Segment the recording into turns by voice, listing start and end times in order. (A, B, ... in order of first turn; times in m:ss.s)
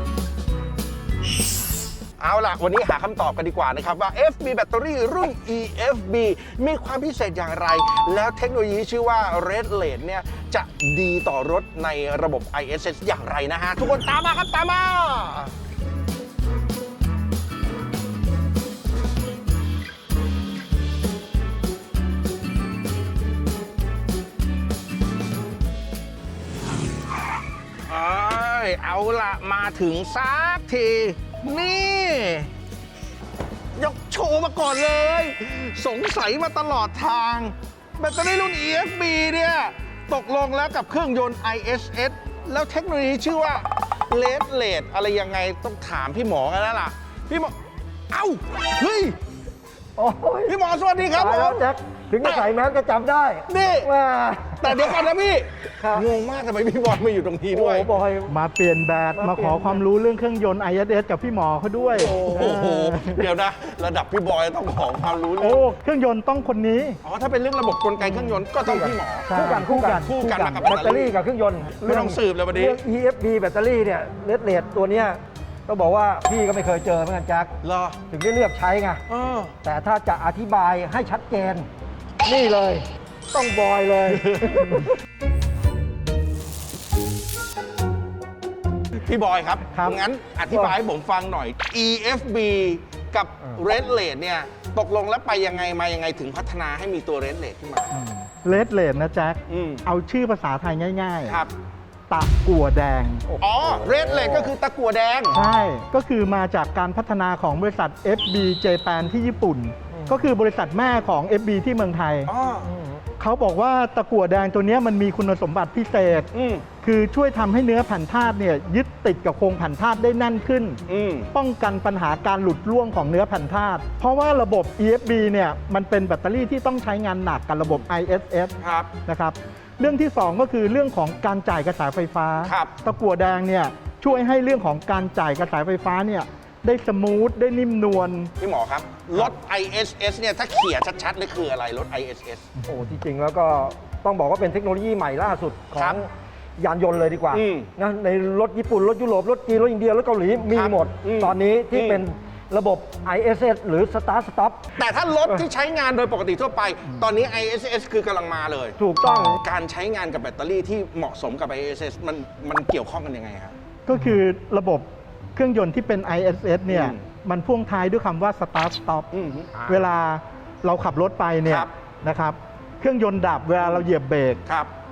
0:02.2-0:15.5 A
0:27.9-0:32.5 A
0:33.8-0:47.6 A
0:48.1-0:49.2 A
0:50.0-0:55.0 B
0:50.5-0:51.7 A
0:52.2-0:52.5 A
0:53.5-0:53.9 A
0:54.6-0:57.9 A
0:55.8-0:56.1 B
0:57.5-0:58.3 B
0:58.3-1:02.2 C
0:59.2-0:59.8 B
1:01.8-1:05.7 A
1:02.2-1:03.0 B
1:05.4-1:07.0 C
1:07.0-1:12.8 A
1:08.8-1:17.5 B
1:09.3-1:10.1 C
1:17.6-1:18.0 A
1:18.1-1:19.0 B
1:19.1-1:19.6 A
1:19.6-1:21.7 B
1:22.2-1:24.9 B
1:24.1-1:24.8 A
1:29.0-1:38.0 A
1:30.5-1:30.8 B
1:37.9-1:41.4 C
1:39.5-1:39.8 A
1:41.3-1:41.5 A
1:42.1-1:43.3 C
1:43.3-1:44.5 B
1:43.4-1:45.4 A
1:45.3-1:52.3 C
1:49.9-1:50.3 B
1:52.3-1:52.7 A
1:52.6-1:53.0 B
1:53.2-1:56.3 C
1:56.3-1:56.6 A
1:56.8-2:00.8 C
2:00.9-2:01.3 A
2:01.3-2:08.6 C
2:08.6-2:08.9 A
2:09.1-2:18.3 C
2:12.4-2:12.8 A
2:18.4-2:22.5 A
2:22.6-2:34.6 B
2:25.7-2:26.0 A
2:27.3-2:27.7 A
2:30.5-2:32.0 A
2:34.8-2:43.6 A
2:38.8-2:39.4 B
2:43.9-2:49.1 C
2:46.7-2:47.0 A
2:49.1-2:49.9 A
2:49.7-2:54.4 C
2:51.4-2:51.7 A
2:54.5-2:54.7 A